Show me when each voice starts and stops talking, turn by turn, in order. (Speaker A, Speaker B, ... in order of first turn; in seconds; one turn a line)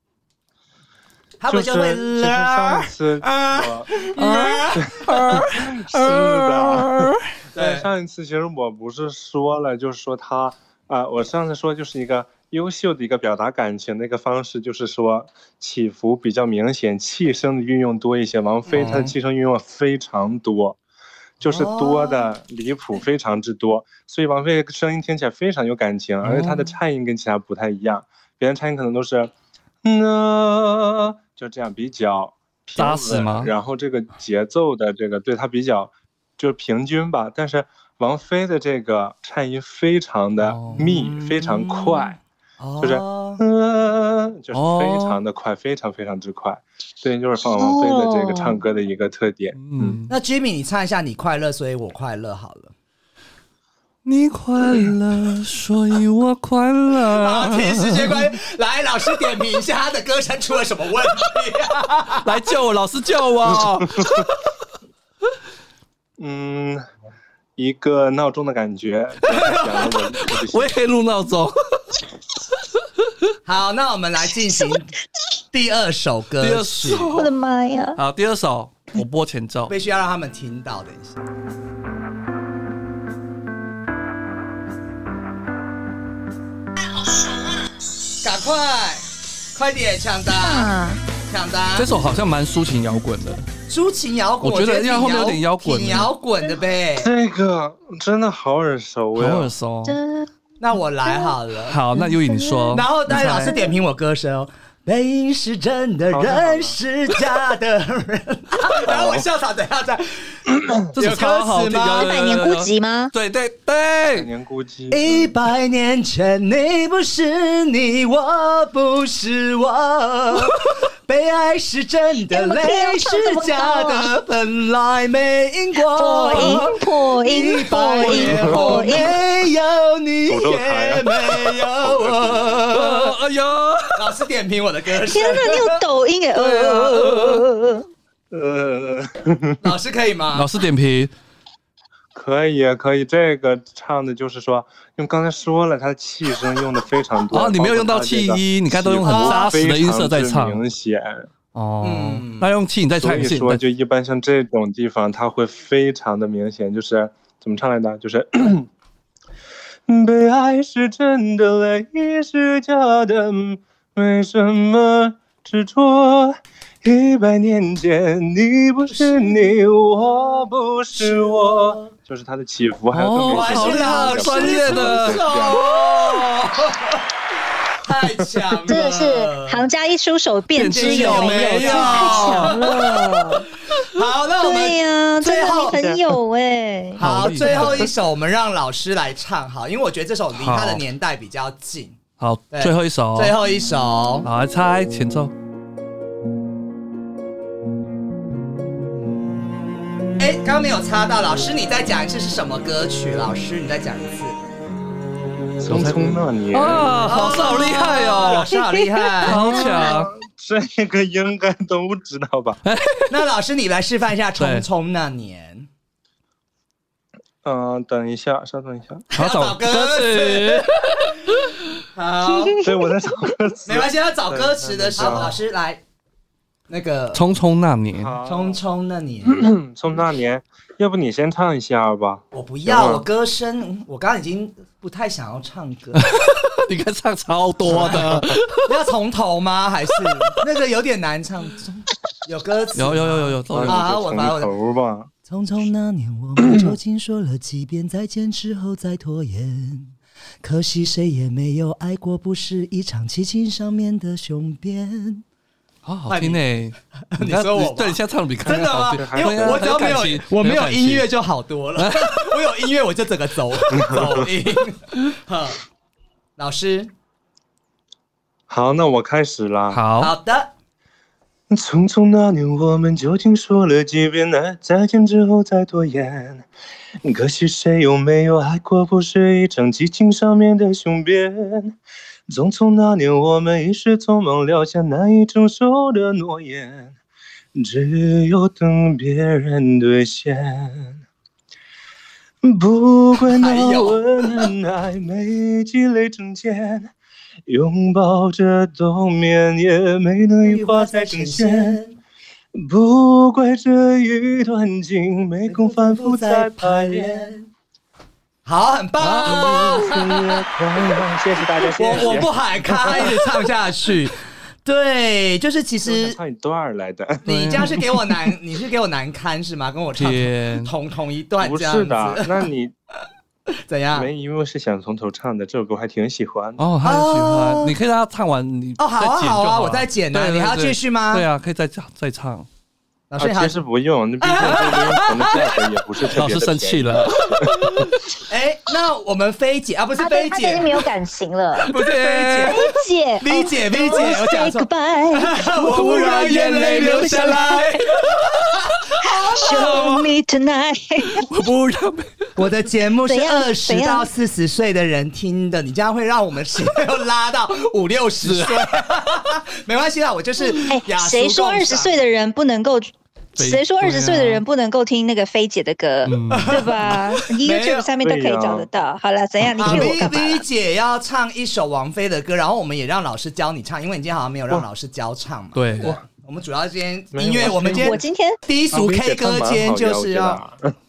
Speaker A: 1.4-5.4
Speaker B: 1.5-4.0
Speaker C: 4.1-7.2
Speaker B: 4.8-20.8
Speaker A: 7.5-7.9
Speaker A: 18.7-19.1
Speaker B: 21.4-29.3
Speaker A: 21.4-22.3
Speaker C: 26.2-26.7
Speaker B: 29.8-42.2
Speaker C: 32.8-33.5
Speaker C: 40.4-40.9
Speaker A: 40.7-43.4
Speaker B: 42.8-50.0
Speaker C: 44.5-45.2
Speaker D: 47.4-48.6
Speaker C: 49.5-50.1
Speaker A: 50.1-52.7
Speaker C: 54.0-58.3
Speaker A: 57.1-62.3
Speaker C: 62.2-64.3
Speaker B: 63.5-64.3
Speaker B: 66.2-66.8
Speaker B: 67.6-70.7
Speaker C: 69.5-71.9
Speaker A: 73.5-74.9
Speaker A: 75.5-77.1
Speaker C: 76.4-77.3
Speaker D: 77.1-78.0
Speaker C: 78.0-79.7
Speaker A: 79.7-81.2
Speaker A: 88.2-90.7
Speaker D: 90.4-91.0
Speaker A: 91.2-92.0
Speaker C: 91.7-93.4
Speaker A: 93.7-97.1
Speaker C: 94.4-96.1
Speaker B: 97.0-99.5
Speaker C: 99.2-100.0
Speaker D: 99.8-100.3
Speaker A: 100.6-101.8
Speaker D: 101.0-101.3
Speaker C: 101.7-103.6
Speaker D: 101.9-102.8
Speaker A: 102.7-112.1
Speaker D: 103.4-103.7
Speaker B: 106.1-106.8
Speaker B: 108.8-109.2
Speaker B: 110.5-110.9
Speaker C: 110.9-114.3
Speaker D: 112.0-113.1
Speaker B: 114.1-115.3
Speaker A: 114.9-133.1
Speaker D: 122.3-124.1
Speaker D: 125.9-129.2
Speaker B: 128.0-129.2
Speaker B: 130.3-132.9
Speaker C: 132.7-134.1
Speaker A: 133.9-135.8
Speaker D: 135.1-137.9
Speaker A: 136.4-136.8
Speaker B: 138.3-139.6
Speaker A: 139.6-140.5
Speaker C: 140.3-141.1
Speaker B: 142.1-151.3
Speaker C: 147.3-150.6
Speaker A: 149.0-149.4
Speaker C: 151.5-153.6
Speaker A: 151.8-152.5
Speaker B: 152.9-158.7
Speaker B: 159.9-175.7
Speaker A: 169.0-169.3
Speaker A: 171.0-171.9
Speaker C: 172.9-176.0
Speaker A: 173.2-177.0
Speaker A: 177.8-179.7
Speaker B: 178.1-178.6
Speaker D: 178.7-183.5
Speaker C: 180.5-182.9
Speaker A: 180.7-183.1
Speaker A: 183.7-185.8
Speaker D: 184.4-187.7
Speaker B: 185.7-186.2
Speaker C: 187.0-187.9
Speaker A: 187.0-192.0
Speaker C: 190.3-190.8
Speaker C: 192.2-193.3
Speaker A: 192.5-194.3
Speaker C: 194.2-195.3
Speaker A: 200.2-204.4
Speaker B: 205.6-207.0
Speaker C: 205.6-208.5
Speaker A: 207.0-209.4
Speaker D: 208.5-208.8
Speaker C: 209.2-210.1
Speaker B: 209.2-212.6
Speaker D: 209.4-210.0
Speaker C: 212.6-213.2
Speaker A: 213.1-215.7
Speaker C: 214.4-214.7
Speaker B: 217.4-219.1
Speaker A: 219.1-220.8
Speaker C: 219.2-221.5
Speaker A: 221.9-222.6
Speaker D: 222.3-223.3
Speaker B: 222.6-225.4
Speaker A: 223.7-225.8
Speaker A: 226.7-227.2
Speaker C: 227.1-228.2
Speaker B: 228.0-228.6
Speaker A: 228.2-229.5
Speaker B: 229.2-233.1
Speaker A: 232.3-236.1
Speaker C: 236.0-238.7
Speaker A: 237.7-238.1
Speaker B: 237.8-238.3
Speaker A: 238.6-244.5
Speaker C: 242.7-243.8
Speaker B: 243.5-245.1
Speaker A: 245.3-255.2
Speaker C: 255.8-261.1
Speaker A: 256.1-256.4
Speaker A: 257.1-265.6
Speaker B: 258.4-260.0
Speaker C: 261.8-262.4
Speaker B: 263.7-264.3
Speaker A: 266.4-266.9
Speaker B: 268.5-269.8
Speaker C: 269.7-270.1
Speaker A: 270.0-270.5
Speaker B: 271.5-276.4
Speaker B: 277.0-281.8
Speaker B: 282.3-286.9
Speaker B: 287.5-291.0
Speaker B: 292.4-296.9
Speaker A: 293.3-294.2
Speaker B: 297.5-301.8
Speaker A: 300.4-302.0
Speaker B: 302.5-307.3
Speaker A: 305.5-307.5
Speaker A: 308.4-310.3
Speaker C: 309.0-309.9
Speaker B: 309.2-313.2
Speaker A: 311.8-316.2
Speaker B: 315.8-317.8
Speaker C: 317.3-317.8
Speaker A: 317.3-322.5
Speaker C: 320.0-320.7
Speaker B: 321.4-322.7
Speaker A: 323.6-324.1
Speaker B: 323.9-326.6
Speaker C: 326.6-332.5
Speaker A: 326.8-327.7
Speaker A: 328.8-331.3
Speaker A: 333.1-333.6
Speaker B: 333.2-337.7
Speaker A: 334.2-335.6
Speaker C: 334.4-334.8
Speaker C: 336.1-338.0
Speaker A: 338.2-340.8
Speaker D: 340.0-341.7
Speaker C: 341.7-342.7
Speaker A: 341.7-342.7
Speaker D: 342.5-347.9
Speaker A: 343.2-350.0
Speaker C: 345.5-347.3
Speaker D: 349.0-351.2
Speaker C: 349.6-349.8
Speaker C: 351.2-352.2
Speaker A: 352.4-361.9
Speaker D: 353.1-354.1
Speaker C: 358.2-358.7
Speaker D: 360.7-370.4
Speaker C: 363.4-364.4
Speaker C: 366.0-366.7
Speaker A: 366.3-367.9
Speaker B: 368.0-368.7
Speaker A: 369.6-380.4
Speaker C: 375.5-375.9
Speaker B: 377.1-378.0
Speaker D: 377.4-378.4
Speaker B: 378.7-380.7